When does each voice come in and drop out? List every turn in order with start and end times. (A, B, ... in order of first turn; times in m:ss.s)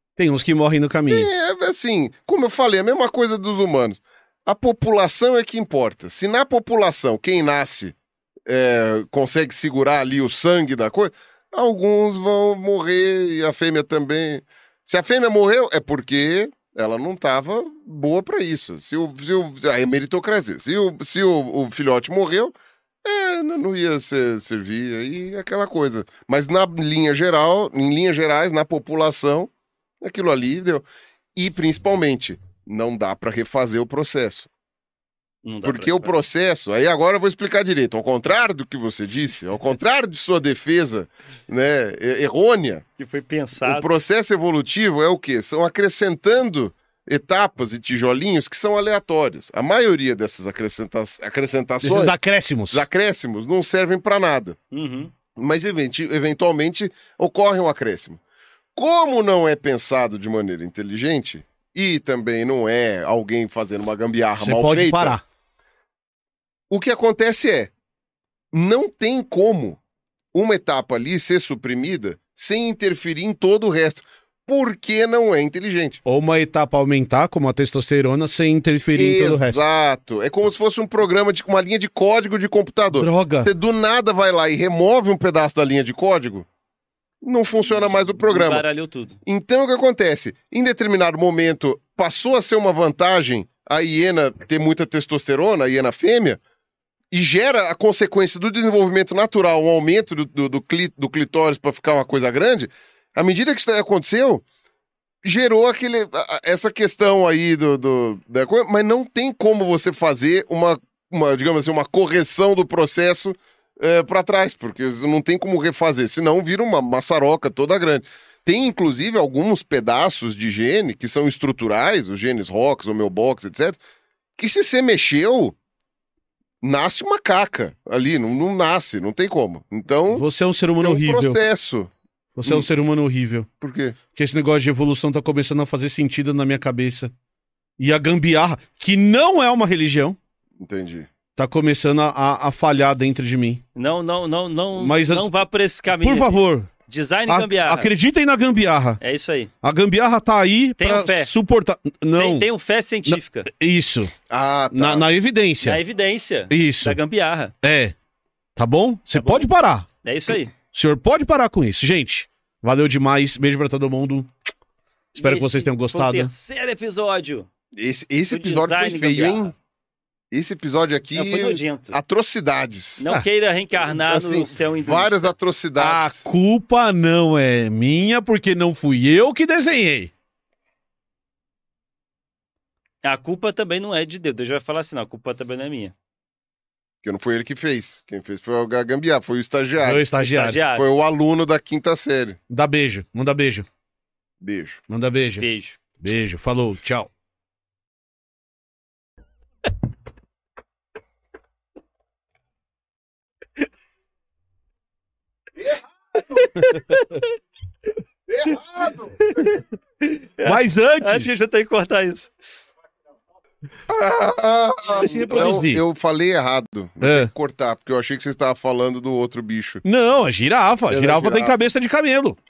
0:00.2-0:01.3 A
0:01.1-0:07.9 B
0:08.4-0:29.5 B
0:30.0-0:34.5 B
0:35.4-0:36.2 C
0:35.6-0:42.8 B
0:43.0-0:43.9 C
0:43.6-0:52.1 B
0:51.8-0:52.8 A
0:52.7-0:54.6 B
0:54.7-0:55.1 C
0:55.4-0:58.2 B
0:58.8-1:05.2 B
1:04.4-1:05.2 A
1:06.7-1:07.7 B
1:08.5-1:09.8 B
1:10.3-1:16.0 B
1:16.0-1:19.6 A
1:18.9-1:26.5 B
1:22.9-1:23.5 A
1:27.2-1:28.6 B
1:28.2-1:29.2 C
1:29.2-1:36.4 B
1:37.1-1:44.4 B
1:45.2-2:03.8 B
2:04.4-2:05.5 B
2:06.6-2:10.2 B
2:10.1-2:11.4 A
2:10.8-2:11.9 B
2:12.4-2:13.5 A
2:13.6-2:14.0 B
2:14.1-2:17.1 A
2:17.8-2:20.2 A
2:20.6-2:21.1 B
2:21.4-2:23.6 A
2:23.8-2:27.9 C
2:24.8-2:25.3 A
2:25.9-2:26.7 A
2:27.3-2:29.0 A
2:29.0-2:29.5 C
2:29.6-2:32.5 A
2:30.8-2:31.3 C
2:32.2-2:33.5 C
2:33.0-2:34.1 A
2:34.3-2:35.1 B
2:34.7-2:35.8 A
2:35.6-2:37.5 C
2:36.5-2:37.0 A
2:37.6-2:37.9 A
2:38.6-2:39.9 A
2:39.1-2:39.5 C
2:40.0-2:40.5 C
2:40.7-2:44.3 A
2:45.1-2:47.5 C
2:45.2-2:46.3 A
2:47.7-2:49.5 B
2:48.3-2:49.5 C
2:50.3-2:53.0 B
2:51.1-2:52.0 C
2:53.0-2:55.3 C
2:53.8-2:56.2 B
2:55.8-3:00.1 A
3:03.0-3:05.9 C
3:07.0-3:10.1 B
3:09.8-3:10.6 A
3:10.2-3:10.8 C
3:10.7-3:12.4 B
3:12.5-3:13.7 A
3:14.4-3:14.8 B
3:14.9-3:15.4 A
3:15.4-3:15.8 C
3:16.0-3:17.1 A
3:26.3-3:27.3 C
3:28.3-3:29.1 B
3:28.5-3:32.3 C
3:30.4-3:31.3 A
3:33.9-3:39.8 B
3:34.9-3:35.8 A
3:35.0-3:35.4 C
3:37.0-3:37.3 A
3:39.8-3:42.4 A
3:40.9-3:41.6 B